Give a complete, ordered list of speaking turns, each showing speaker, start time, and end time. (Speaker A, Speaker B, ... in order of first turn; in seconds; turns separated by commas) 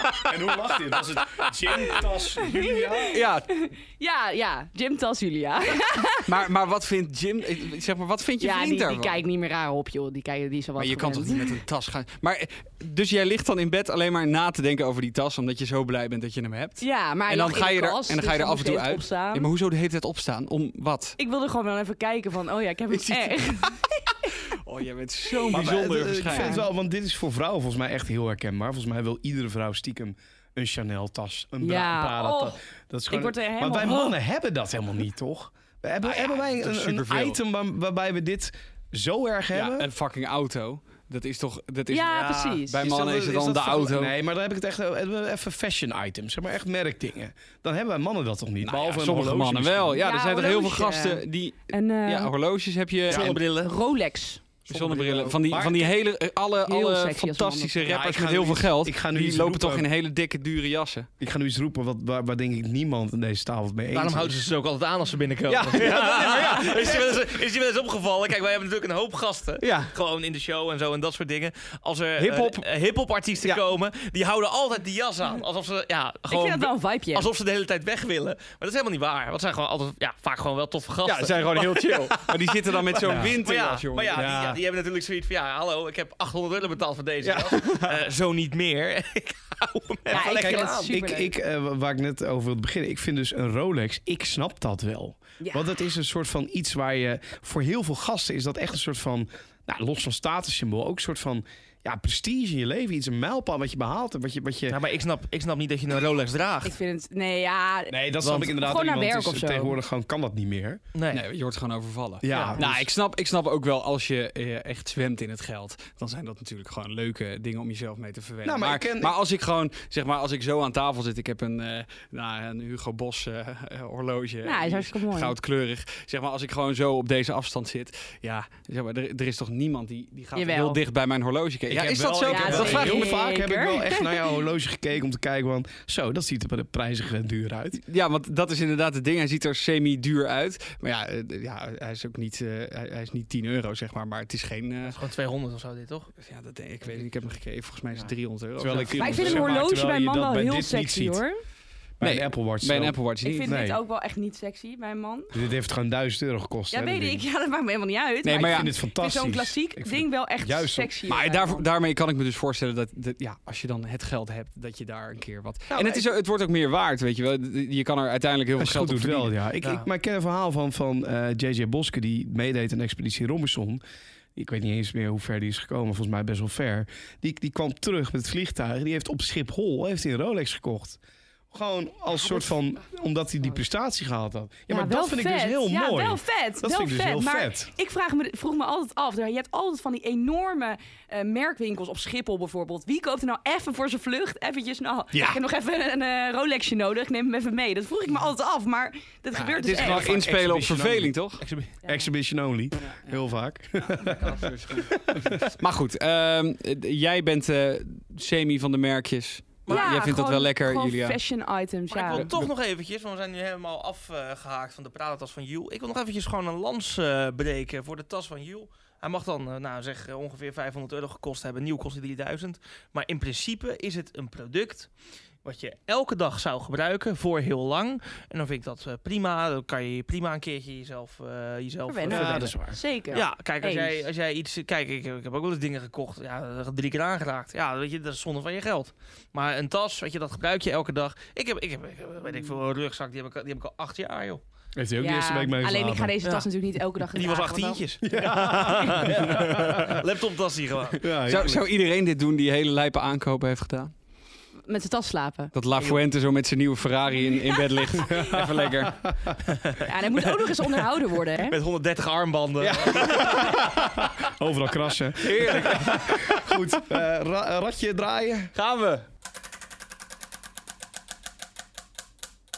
Speaker A: 0.2-3.2, Speaker B: 2.5-6.3, Speaker C: 3.1-3.5, Speaker C: 6.2-9.2, Speaker B: 8.4-11.6, Speaker C: 10.8-21.2, Speaker B: 16.8-19.5, Speaker B: 21.2-24.3, Speaker C: 22.9-23.7, Speaker C: 24.6-26.6, Speaker B: 25.3-25.7, Speaker A: 25.5-39.9, Speaker B: 26.2-26.7, Speaker B: 31.6-32.6, Speaker B: 33.1-34.2, Speaker C: 36.0-37.4, Speaker C: 39.5-44.1, Speaker B: 41.9-42.8, Speaker D: 42.1-42.6, Speaker A: 42.8-50.0, Speaker C: 48.6-53.4, Speaker B: 50.0-52.3, Speaker D: 53.1-53.7, Speaker A: 53.1-53.3, Speaker B: 53.5-54.4, Speaker C: 54.7-61.1, Speaker A: 54.7-55.9, Speaker D: 54.9-55.2, Speaker B: 56.6-57.9, Speaker A: 57.8-59.9, Speaker A: 61.2-64.3, Speaker D: 63.9-90.9, Speaker C: 65.5-67.1, Speaker C: 69.6-69.9, Speaker C: 72.2-72.6, Speaker B: 76.3-77.3, Speaker C: 81.0-84.2, Speaker A: 83.0-83.4, Speaker A: 84.1-84.6, Speaker C: 87.2-88.0, Speaker B: 90.1-91.3, Speaker A: 90.1-104.8, Speaker B: 95.4-95.7, Speaker D: 104.7-106.7, Speaker B: 106.6-109.8, Speaker A: 107.9-110.8, Speaker D: 110.9-111.2, Speaker C: 111.1-133.1, Speaker A: 112.2-112.9, Speaker A: 118.4-119.2, Speaker B: 124.4-125.3, Speaker B: 130.3-130.8, Speaker A: 131.7-137.8, Speaker B: 132.2-134.3, Speaker C: 137.8-145.0, Speaker D: 144.8-146.1, Speaker C: 146.2-149.6, Speaker A: 148.0-151.2, Speaker B: 148.9-151.4, Speaker C: 152.0-153.6, Speaker A: 152.0-153.8, Speaker B: 153.2-155.3, Speaker A: 155.3-157.2, Speaker B: 156.7-161.7, Speaker C: 158.2-158.7, Speaker A: 158.3-160.9, Speaker C: 161.1-169.3, Speaker A: 165.7-166.1, Speaker A: 168.6-173.8, Speaker A: 174.3-181.0, Speaker A: 181.5-187.7, Speaker B: 184.7-200.1, Speaker C: 199.4-201.4, Speaker A: 199.4-201.1, Speaker D: 201.4-201.7, Speaker A: 201.8-205.4, Speaker C: 202.8-203.1, Speaker C: 203.8-211.2, Speaker D: 209.7-209.9, Speaker B: 209.7-212.3, Speaker D: 211.9-224.9, Speaker C: 212.1-212.5, Speaker D: 225.4-244.4, Speaker B: 231.9-234.0, Speaker A: 232.1-232.8, Speaker A: 244.8-246.1, Speaker B: 245.0-247.8, Speaker D: 247.1-251.1, Speaker A: 248.0-250.0, Speaker A: 251.0-251.7, Speaker C: 251.2-253.9, Speaker B: 254.7-255.9, Speaker C: 255.5-259.0, Speaker A: 258.0-259.4, Speaker B: 259.8-261.6, Speaker D: 261.4-263.4, Speaker C: 262.6-263.8, Speaker A: 262.9-268.5, Speaker C: 265.2-266.8, Speaker C: 268.5-269.1